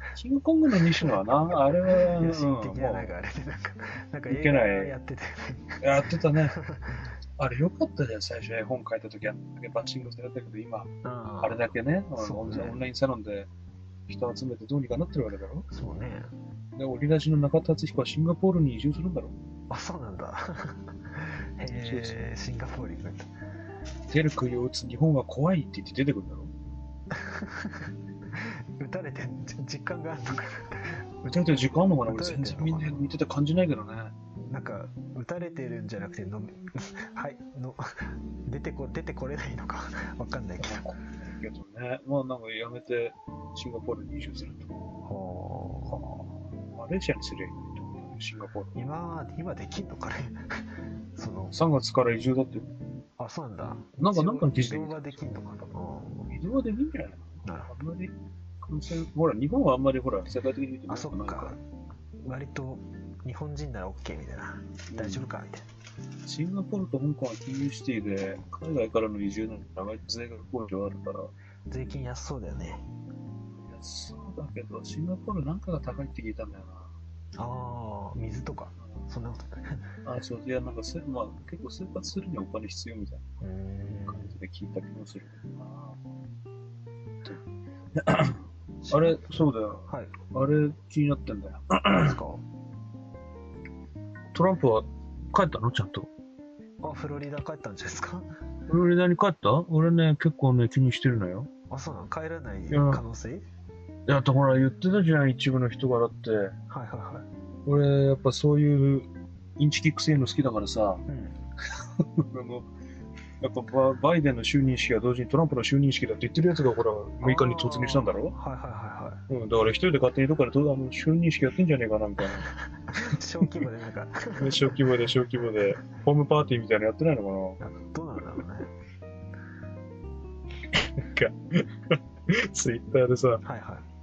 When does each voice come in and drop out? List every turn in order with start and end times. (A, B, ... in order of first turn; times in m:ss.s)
0:00.1-0:03.1 A
0:00.8-0:07.1 B
0:04.3-0:04.9 A
0:05.8-0:06.6 A
0:07.4-0:13.5 A
0:11.0-0:11.6 B
0:12.2-0:12.8 B
0:14.1-0:15.7 A
0:15.7-0:16.3 B
0:16.8-0:19.3 A
0:19.7-0:23.3 B
0:21.7-0:22.2 A
0:24.1-0:26.5 A
0:27.1-0:33.0 B
0:31.3-0:34.1 A
0:34.5-0:40.8 B
0:40.6-0:44.7 A
0:45.0-0:46.0 B
0:45.9-0:48.8 A
0:48.7-0:51.6 B
0:51.5-0:52.7 A
0:53.2-0:56.4 B
0:54.0-0:55.3 A
0:56.3-1:01.6 A
0:57.4-0:57.7 B
1:00.9-1:01.6 B
1:02.2-1:05.6 B
1:04.9-1:05.3 A
1:06.2-1:11.3 A
1:11.7-1:12.8 B
1:13.6-1:16.9 A
1:17.4-1:19.9 B
1:20.0-1:23.2 A
1:23.4-1:24.3 B
1:24.0-1:26.0 A
1:27.9-1:32.2 A
1:28.8-1:30.1 B
1:31.9-1:32.4 B
1:34.3-1:36.1 A
1:36.8-1:38.3 B
1:38.7-1:41.5 A
1:41.7-1:43.4 B
1:42.7-1:43.0 A
1:44.1-1:46.6 A
1:46.7-1:47.3 B
1:47.6-1:51.0 A
1:51.1-1:51.4 B
1:52.0-1:52.7 A
1:53.4-1:58.3 A
1:57.2-1:59.2 B
1:59.3-2:02.5 A
2:02.8-2:04.8 B
2:04.4-2:07.6 A
2:07.6-2:08.7 B
2:10.8-2:13.4 A
2:13.4-2:13.8 B